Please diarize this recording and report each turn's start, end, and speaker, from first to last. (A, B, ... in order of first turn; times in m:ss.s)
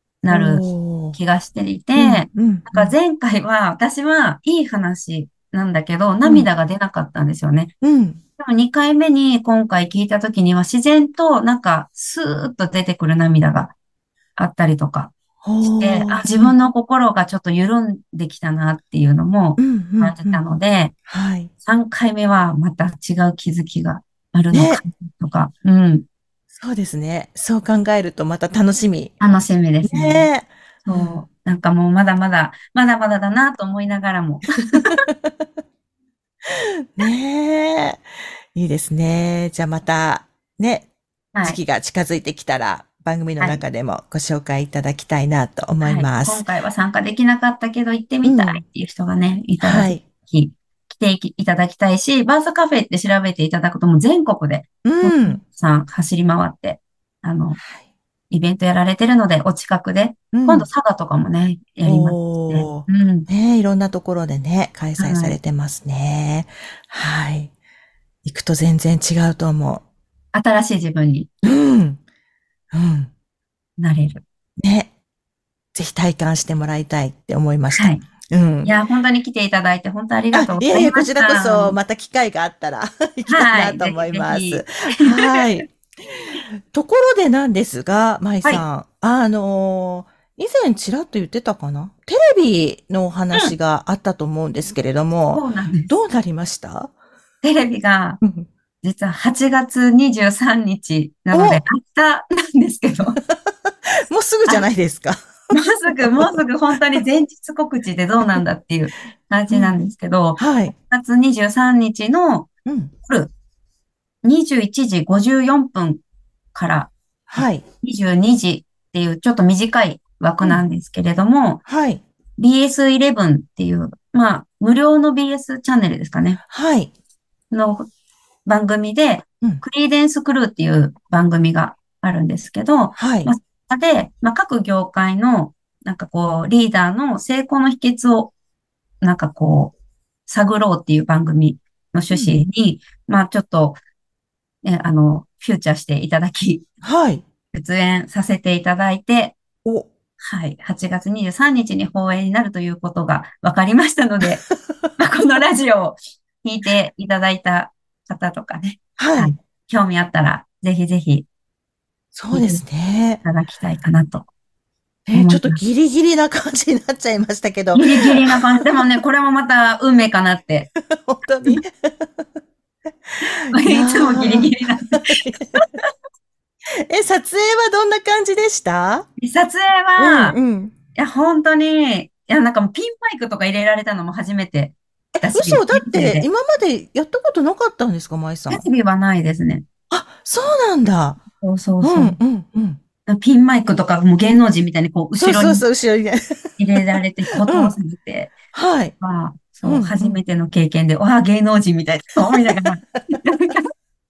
0:00.2-0:07.7 A
0:00.3-0:01.2 B
0:02.0-0:03.0 B
0:07.8-0:08.2 B
0:08.4-0:13.7 A
0:14.4-0:20.9 A
0:15.4-0:16.5 B
0:19.6-0:20.4 B
0:21.1-0:21.5 B
0:21.6-0:26.0 A
0:24.5-0:24.8 B
0:26.6-0:29.2 B
0:29.2-0:30.3 A
0:29.8-0:31.2 B
0:30.8-0:35.0 A
0:36.4-0:38.0 B
0:38.5-0:40.9 B
0:41.4-0:46.4 B
0:45.8-0:57.6 A
0:48.2-0:48.6 B
0:49.6-0:50.0 B
0:54.8-0:55.4 B
0:58.3-1:03.3 A
1:00.3-1:00.7 B
1:01.8-1:07.5 B
1:05.0-1:05.4 A
1:08.2-1:09.8 B
1:10.3-1:11.3 A
1:11.4-1:12.0 B
1:12.7-1:13.1 B
1:13.8-1:14.2 A
1:14.6-1:14.9 B
1:15.7-1:18.7 B
1:17.7-1:18.0 A
1:18.6-1:21.8 A
1:20.3-1:36.9 B
1:23.2-1:25.6 A
1:35.3-1:35.9 A
1:37.4-1:38.2 A
1:38.8-1:43.2 A
1:41.3-1:41.6 B
1:43.2-1:46.3 B
1:45.5-1:52.5 A
1:49.5-1:49.8 B
1:50.4-1:50.7 B
1:52.6-1:52.9 B
1:53.0-1:53.3 A
1:54.2-1:56.0 A
1:56.5-2:01.6 A
1:57.3-1:57.6 B
2:01.7-2:02.0 B
2:02.4-2:06.4 A
2:06.5-2:06.9 B
2:07.5-2:07.9 A
2:08.4-2:18.3 A
2:13.0-2:13.3 B
2:19.0-2:19.7 A
2:20.2-2:23.8 A
2:22.1-2:22.4 B
2:24.6-2:26.6 A
2:26.8-2:27.2 B
2:27.5-2:29.4 A
2:30.2-2:34.4 A
2:35.0-2:41.3 A
2:39.0-2:39.3 B
2:42.1-2:43.2 B
2:42.3-2:42.6 A
2:43.2-2:44.3 A
2:45.1-2:48.4 B
2:45.1-2:45.6 A
2:47.7-2:50.7 A
2:50.8-2:52.3 B
2:53.5-2:55.8 A
2:53.6-2:55.5 B
2:56.9-2:59.0 B
2:59.2-3:00.4 A
3:00.0-3:00.7 B
3:00.9-3:06.3 A
3:05.2-3:08.6 B
3:08.5-3:09.6 A
3:09.9-3:11.2 B
3:11.4-3:12.2 A
3:11.8-3:12.8 B
3:13.0-3:15.6 A
3:15.2-3:16.6 B
3:16.6-3:18.4 A
3:17.4-3:17.7 B
3:18.5-3:18.9 B
3:19.0-3:23.7 A
3:19.6-3:20.2 B
3:22.3-3:22.6 B